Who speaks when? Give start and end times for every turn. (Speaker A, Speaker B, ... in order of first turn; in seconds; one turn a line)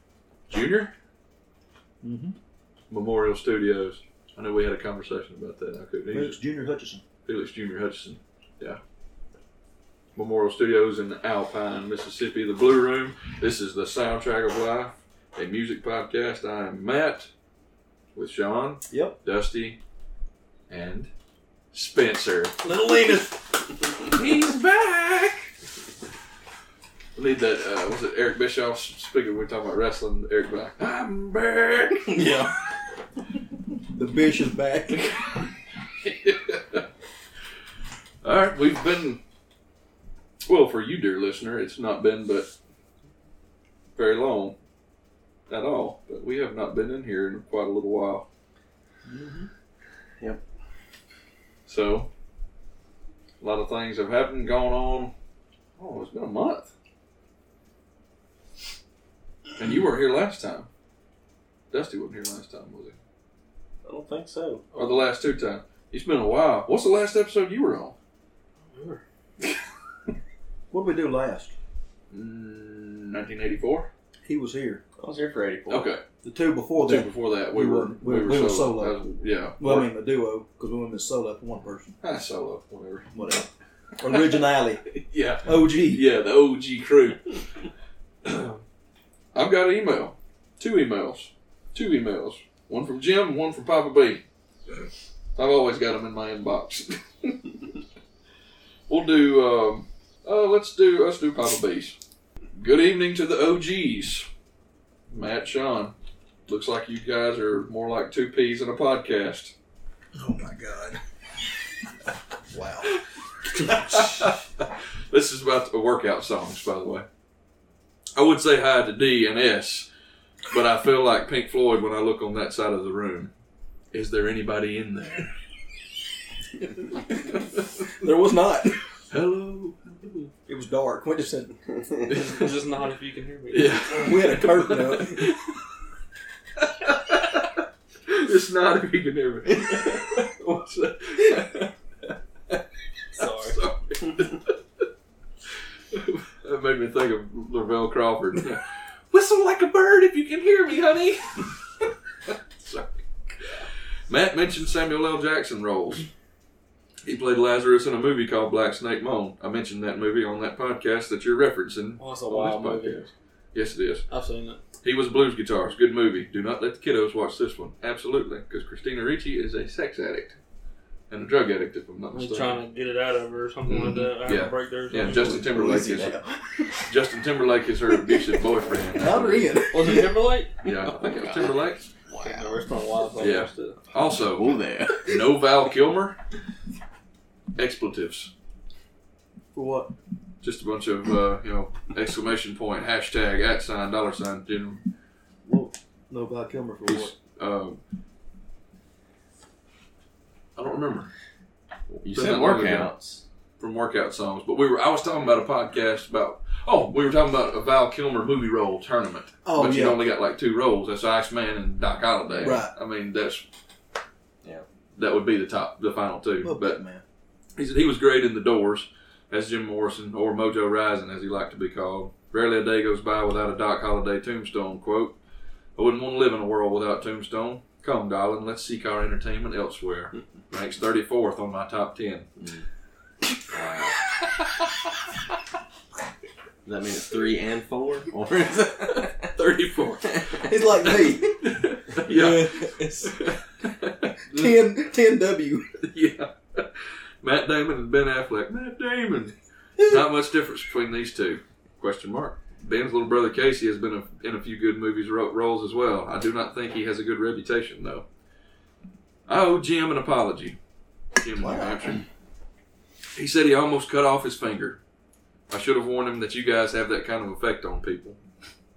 Speaker A: 0.5-0.9
Speaker B: 2.0-2.3
Speaker A: 2.9-6.4
Speaker B: 6.1-7.0
Speaker A: 7.2-8.8
Speaker A: 10.1-17.3
Speaker A: 18.1-19.8
Speaker B: 18.9-19.1
Speaker A: 20.7-21.1
Speaker A: 21.7-22.6
Speaker C: 22.6-23.3
Speaker A: 24.1-25.5
Speaker A: 27.1-32.5
Speaker B: 33.9-35.0
Speaker A: 35.0-35.4
Speaker A: 36.0-36.8
Speaker A: 38.2-39.2
Speaker A: 40.5-42.5
Speaker A: 44.0-44.5
Speaker A: 45.5-48.2
Speaker B: 49.1-49.5
Speaker A: 51.7-52.1
Speaker A: 53.4-55.1
Speaker A: 55.8-56.7
Speaker A: 59.5-60.7
Speaker A: 61.7-63.0
Speaker D: 63.8-64.6
Speaker C: 64.7-65.0
Speaker A: 64.7-67.9
Speaker C: 68.7-69.0
Speaker B: 70.7-71.5
Speaker A: 72.1-73.9
Speaker B: 74.2-74.8
Speaker D: 75.0-75.9
Speaker A: 75.7-76.0
Speaker B: 76.2-79.0
Speaker A: 76.7-79.9
Speaker B: 79.6-82.0
Speaker A: 82.0-83.1
Speaker B: 83.1-84.8
Speaker A: 85.0-87.3
Speaker B: 85.4-86.0
Speaker A: 88.2-88.6
Speaker A: 89.3-94.2
Speaker A: 95.3-97.4
Speaker A: 98.9-102.0
Speaker A: 102.6-104.2
Speaker A: 105.1-105.9
Speaker A: 106.5-109.5
Speaker B: 110.1-111.0
Speaker B: 112.5-112.9
Speaker B: 113.6-114.1
Speaker A: 113.6-117.0
Speaker A: 118.2-119.9
Speaker A: 120.5-123.3
Speaker A: 123.9-125.3
Speaker A: 127.1-127.6
Speaker B: 128.0-128.8
Speaker A: 129.1-130.3
Speaker B: 130.5-131.6
Speaker A: 132.1-132.5
Speaker C: 132.1-133.8
Speaker A: 133.5-135.5
Speaker B: 133.9-135.2
Speaker A: 136.6-141.7
Speaker C: 143.2-143.6
Speaker A: 143.2-144.8
Speaker A: 145.9-151.5
Speaker A: 152.6-153.0
Speaker A: 154.1-156.1
Speaker A: 157.0-164.1
Speaker C: 162.0-163.1
Speaker C: 164.1-164.6
Speaker A: 164.8-170.4
Speaker A: 171.1-172.6
Speaker C: 172.1-175.4
Speaker A: 173.7-176.2
Speaker D: 175.0-176.8
Speaker A: 176.8-179.6
Speaker B: 178.9-180.2
Speaker C: 179.7-180.5
Speaker A: 180.6-181.8
Speaker D: 180.8-182.6
Speaker C: 182.2-183.8
Speaker A: 183.2-186.2
Speaker D: 184.3-185.1
Speaker A: 187.6-188.3
Speaker B: 189.5-189.9
Speaker A: 190.4-194.8
Speaker B: 195.4-197.1
Speaker A: 196.8-197.8
Speaker A: 200.6-201.1
Speaker A: 201.9-202.9
Speaker D: 202.0-203.2
Speaker A: 203.6-213.4
Speaker B: 209.4-210.0
Speaker D: 212.3-212.6
Speaker B: 212.4-212.7
Speaker A: 214.9-216.8
Speaker B: 216.4-217.0
Speaker A: 217.6-225.2
Speaker A: 225.8-232.3
Speaker D: 233.5-233.9
Speaker D: 236.6-239.3
Speaker A: 239.0-244.2
Speaker B: 240.4-241.4
Speaker C: 242.0-243.1
Speaker B: 244.3-245.7
Speaker A: 245.8-258.1
Speaker A: 259.3-260.6
Speaker A: 261.2-262.0
Speaker B: 261.4-261.8
Speaker A: 263.1-264.8
Speaker A: 265.5-268.2